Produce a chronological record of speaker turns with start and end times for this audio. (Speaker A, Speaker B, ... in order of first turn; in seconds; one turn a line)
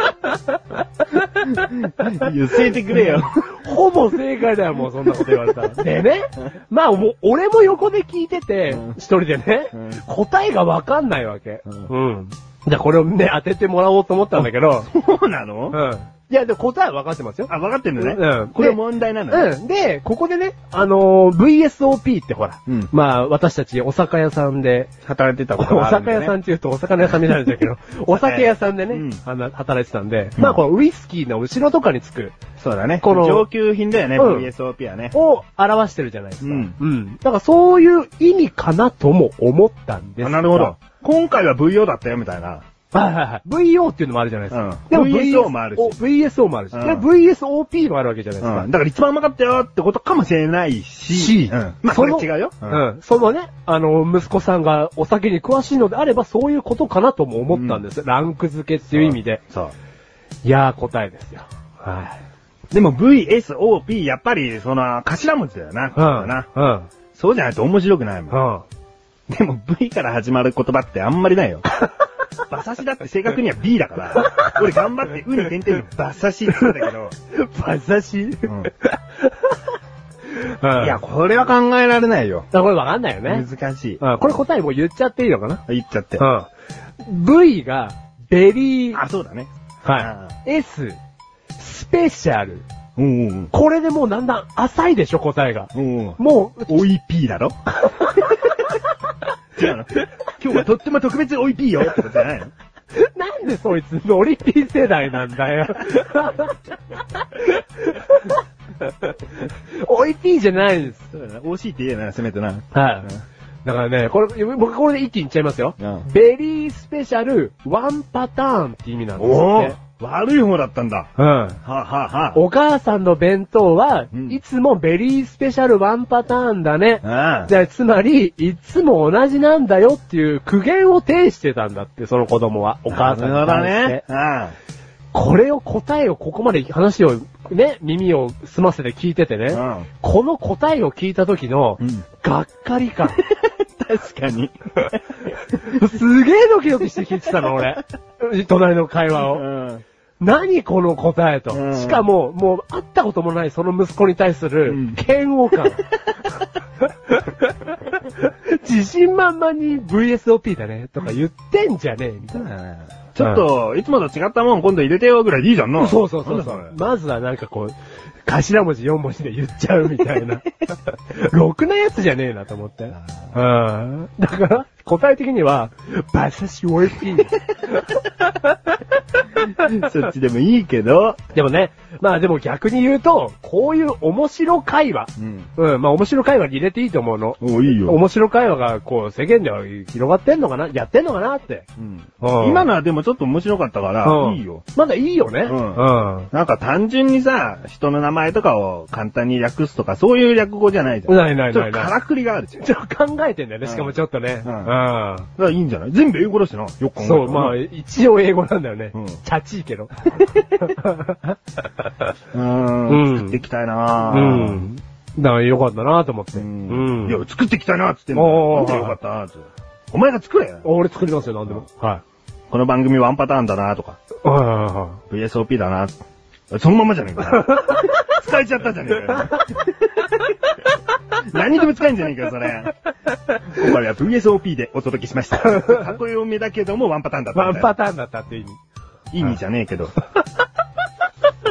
Speaker A: 1.4-3.5
Speaker B: 3.1-14.9
Speaker A: 8.7-9.0
Speaker A: 9.7-10.0
Speaker A: 14.8-15.8
Speaker B: 15.7-18.8
Speaker A: 17.5-19.5
Speaker B: 19.3-24.9
Speaker A: 22.7-22.9
Speaker A: 25.0-26.4
Speaker B: 25.6-32.4
Speaker A: 28.1-29.2
Speaker A: 30.4-30.6
Speaker A: 32.6-35.2
Speaker B: 33.0-33.5
Speaker B: 34.2-34.5
Speaker B: 35.1-40.8
Speaker A: 36.4-36.8
Speaker A: 40.2-42.6
Speaker B: 42.9-48.7
Speaker A: 44.5-46.0
Speaker A: 46.7-47.1
Speaker A: 48.4-52.9
Speaker B: 51.1-59.4
Speaker A: 57.5-57.8
Speaker A: 58.9-59.7
Speaker B: 60.4-62.2
Speaker A: 62.7-66.5
Speaker B: 66.0-66.9
Speaker A: 67.1-68.4
Speaker B: 68.3-68.7
Speaker A: 69.3-71.7
Speaker A: 72.5-77.1
Speaker B: 74.2-74.6
Speaker B: 77.3-79.6
Speaker A: 78.5-78.7
Speaker B: 80.3-81.0
Speaker A: 80.8-82.5
Speaker B: 82.5-83.5
Speaker A: 83.3-84.0
Speaker B: 84.0-85.6
Speaker A: 85.7-86.2
Speaker B: 86.2-86.5
Speaker B: 87.0-89.0
Speaker A: 88.9-90.3
Speaker B: 89.8-91.0
Speaker B: 91.6-92.7
Speaker A: 93.0-93.5
Speaker B: 93.5-96.9
Speaker A: 95.7-97.6
Speaker B: 97.8-98.6
Speaker A: 99.6-102.5
Speaker B: 103.0-106.6
Speaker B: 107.1-111.0
Speaker A: 111.1-113.2
Speaker B: 112.7-113.1
Speaker B: 113.7-119.8
Speaker A: 115.8-116.1
Speaker A: 119.2-121.1
Speaker B: 121.2-121.6
Speaker A: 121.6-122.4
Speaker B: 122.3-134.0
Speaker A: 124.1-124.4
Speaker A: 127.0-127.5
Speaker A: 132.9-134.6
Speaker B: 135.1-143.2
Speaker A: 139.5-139.9
Speaker A: 141.8-142.1
Speaker A: 143.2-145.0
Speaker B: 145.5-149.4
Speaker A: 149.1-149.8
Speaker B: 150.2-155.9
Speaker A: 151.5-152.1
Speaker A: 154.7-155.0
Speaker B: 156.8-162.5
Speaker A: 162.3-166.8
Speaker B: 165.8-177.9
Speaker A: 179.5-181.2
Speaker B: 181.3-191.7
Speaker A: 185.2-185.5
Speaker A: 187.4-188.0
Speaker A: 191.8-194.6
Speaker B: 192.2-192.7
Speaker B: 194.0-196.3
Speaker A: 195.4-202.6
Speaker B: 201.1-201.9
Speaker B: 202.6-205.3
Speaker A: 203.6-204.8
Speaker A: 205.4-207.6
Speaker B: 207.0-211.4
Speaker A: 208.9-209.2
Speaker A: 212.3-214.7
Speaker B: 212.9-213.4
Speaker B: 214.1-217.2
Speaker A: 216.3-220.7
Speaker B: 218.1-219.0
Speaker B: 220.6-222.0
Speaker A: 222.5-224.0
Speaker B: 224.2-225.0
Speaker A: 225.1-225.9
Speaker A: 226.5-230.4
Speaker B: 227.4-227.8
Speaker A: 231.2-232.7
Speaker A: 233.4-237.8
Speaker B: 235.5-235.8
Speaker B: 237.3-238.6
Speaker A: 239.1-240.0